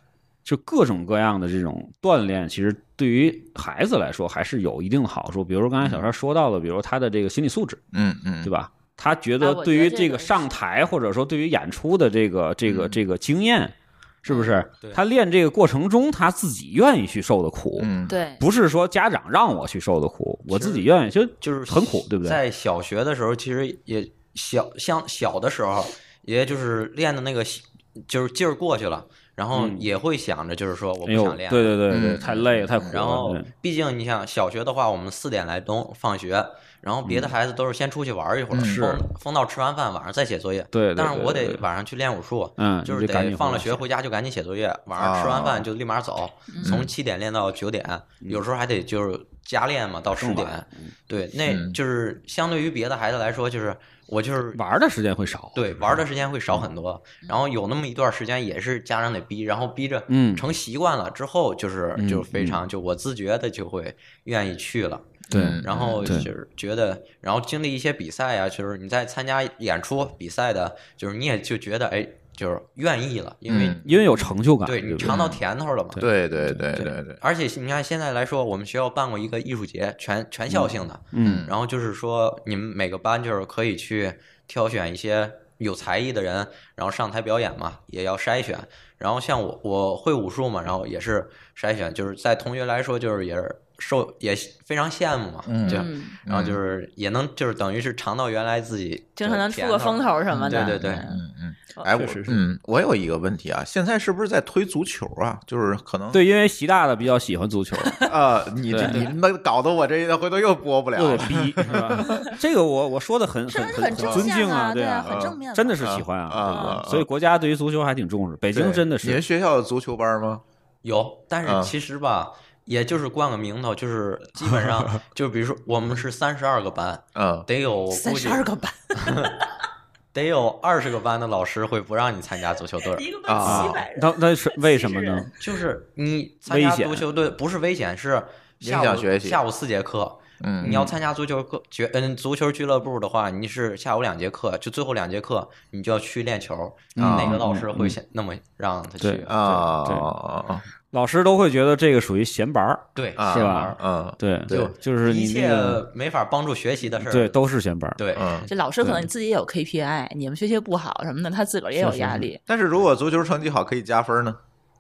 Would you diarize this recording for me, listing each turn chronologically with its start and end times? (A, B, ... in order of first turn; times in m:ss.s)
0:00.4-0:07.8 A
0:05.8-0:06.1 B
0:07.9-0:08.5 B
0:08.4-0:22.4 A
0:09.4-0:10.5 C
0:12.7-0:13.0 B
0:14.3-0:14.6 C
0:17.8-0:18.2 B
0:18.1-0:18.4 C
0:20.5-0:20.9 D
0:21.4-0:32.2 D
0:29.5-0:29.9 A
0:31.1-0:33.5 A
0:31.9-0:33.0 B
0:32.8-0:54.6 D
0:37.1-0:37.4 A
0:38.5-0:38.9 B
0:38.6-0:39.0 A
0:40.7-0:41.6 A
0:42.6-0:43.8 A
0:45.0-0:45.7 B
0:46.5-0:46.8 C
0:46.6-0:46.9 B
0:50.2-0:50.9 A
0:51.5-0:51.8 B
0:54.5-0:56.0 A
0:55.5-1:13.8 D
1:00.1-1:00.5 A
1:02.0-1:02.6 A
1:05.3-1:06.3 B
1:05.3-1:06.3 A
1:13.5-1:13.9 B
1:13.5-1:15.2 A
1:14.6-1:16.0 D
1:15.0-1:15.4 B
1:16.0-1:17.2 B
1:16.7-1:41.1 D
1:21.1-1:21.4 A
1:21.2-1:21.5 B
1:35.5-1:36.6 B
1:35.7-1:36.2 C
1:39.2-1:41.2 C
1:40.3-1:46.2 B
1:41.9-1:42.4 A
1:46.1-1:48.2 A
1:47.8-1:48.1 C
1:48.1-1:52.2 B
1:48.7-1:49.0 A
1:48.8-1:49.1 D
1:51.0-1:59.2 A
1:53.5-1:56.8 C
1:54.0-1:54.3 B
1:55.0-1:57.1 B
1:58.5-2:00.4 B
2:00.8-2:08.4 D
2:01.4-2:01.7 B
2:07.2-2:07.5 B
2:07.9-2:09.4 C
2:09.0-2:09.4 D
2:10.1-2:13.5 D
2:12.9-2:15.4 C
2:13.3-2:13.8 B
2:13.4-2:15.4 A
2:15.4-2:29.7 D
2:16.5-2:17.0 A
2:18.6-2:19.4 B
2:20.4-2:21.0 B
2:27.0-2:28.0 A
2:27.0-2:27.4 B
2:29.0-2:30.1 A
2:29.3-2:30.6 B
2:30.9-2:35.8 A
2:33.0-2:33.8 D
2:33.2-2:34.7 B
2:34.5-2:37.4 D
2:37.0-2:38.0 A
2:38.0-2:38.5 D
2:38.2-2:38.5 B
2:38.5-2:42.4 C
2:38.8-2:39.1 A
2:41.8-2:44.4 B